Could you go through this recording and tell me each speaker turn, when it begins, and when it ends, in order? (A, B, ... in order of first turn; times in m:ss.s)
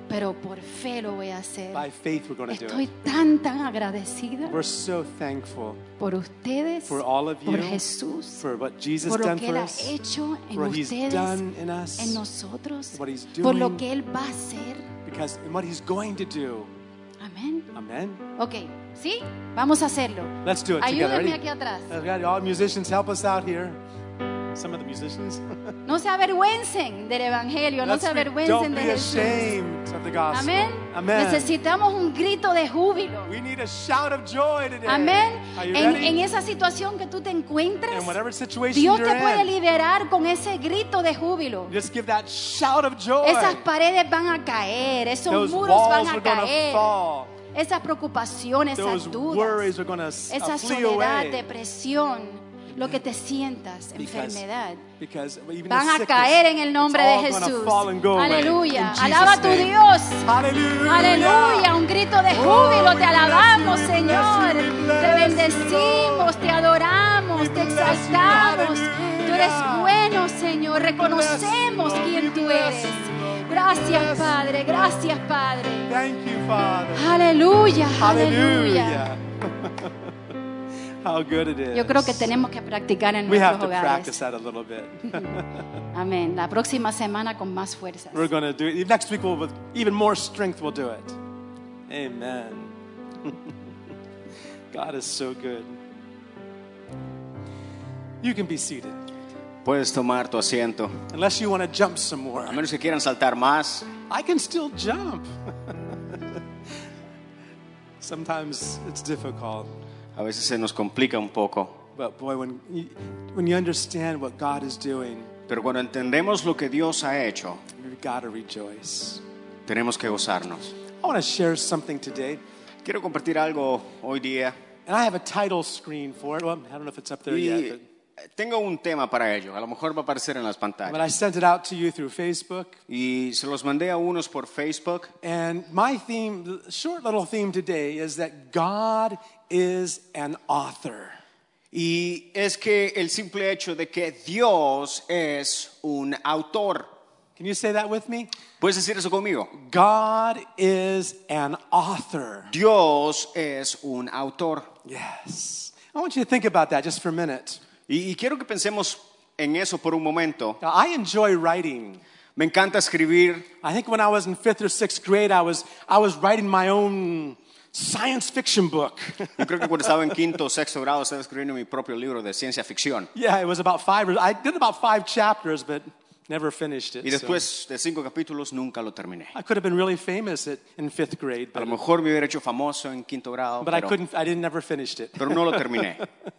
0:00.1-0:01.9 A
0:01.7-0:02.9 B
0:02.5-0:04.6 A
0:04.4-0:05.8 B
0:06.0-0:08.4 A
0:06.9-0:07.8 B
0:08.4-0:09.9 B
0:09.0-0:11.4 A
0:10.5-0:12.2 B
0:12.0-0:14.9 A
0:12.9-0:13.8 B
0:15.0-0:16.7 B
0:17.2-0:17.7 A
0:17.7-0:18.2 B
0:18.4-0:21.9 A
0:20.4-0:23.8 B
0:24.5-0:25.8 B
0:25.8-0:29.6 A
0:27.8-0:31.5 B
0:30.3-0:33.3 A
0:33.2-0:36.2 B
0:34.8-0:38.2 A
0:37.9-0:39.5 B
0:38.7-0:41.7 A
0:41.7-0:43.6 B
0:43.2-0:46.9 A
0:45.3-0:47.4 B
0:47.5-0:49.7 A
0:48.8-0:51.5 B
0:50.3-0:54.8 A
0:52.7-0:53.0 B
0:54.0-0:54.4 B
0:55.0-1:01.7 B
0:55.7-1:00.3 A
1:00.8-1:15.9 A
1:02.3-1:06.4 B
1:07.3-1:10.0 B
1:10.8-1:14.9 B
1:15.9-1:17.1 B
1:16.9-1:19.1 A
1:18.0-1:20.1 B
1:21.0-1:22.3 B
1:21.7-1:24.2 A
1:23.2-1:25.7 B
1:25.1-1:25.4 A
1:25.9-1:28.3 A
1:28.1-1:31.2 B
1:31.9-1:33.6 B
1:34.7-1:35.8 B
1:38.2-1:39.0 B
1:39.6-1:41.0 C
1:41.1-1:42.6 B
1:42.5-1:43.9 C
1:44.1-1:46.4 B
1:48.0-1:49.7 B
1:50.2-1:51.8 C
1:51.9-1:55.3 B
1:55.5-1:57.6 C
1:57.7-1:59.2 B
1:59.6-2:00.7 C
2:01.0-2:02.4 B
2:02.8-2:04.5 C
2:04.9-2:07.8 B
2:07.3-2:07.8 C
2:08.3-2:11.1 C
2:10.8-2:12.8 B
2:12.9-2:15.1 C
2:15.2-2:21.2 B
2:21.7-2:26.9 C
2:27.4-2:28.3 B
2:28.6-2:29.5 C
2:29.5-2:32.5 B
2:32.5-2:34.7 C
2:34.8-2:37.6 B
2:37.9-2:40.6 C
2:40.6-2:42.0 B
2:42.4-2:43.5 C
2:43.6-2:49.9 B
2:49.4-2:53.1 C
2:53.1-2:57.4 B
2:57.0-2:59.3 C
2:59.3-3:01.8 B
3:01.5-3:03.9 C
3:03.6-3:06.0 B
3:05.2-3:06.0 C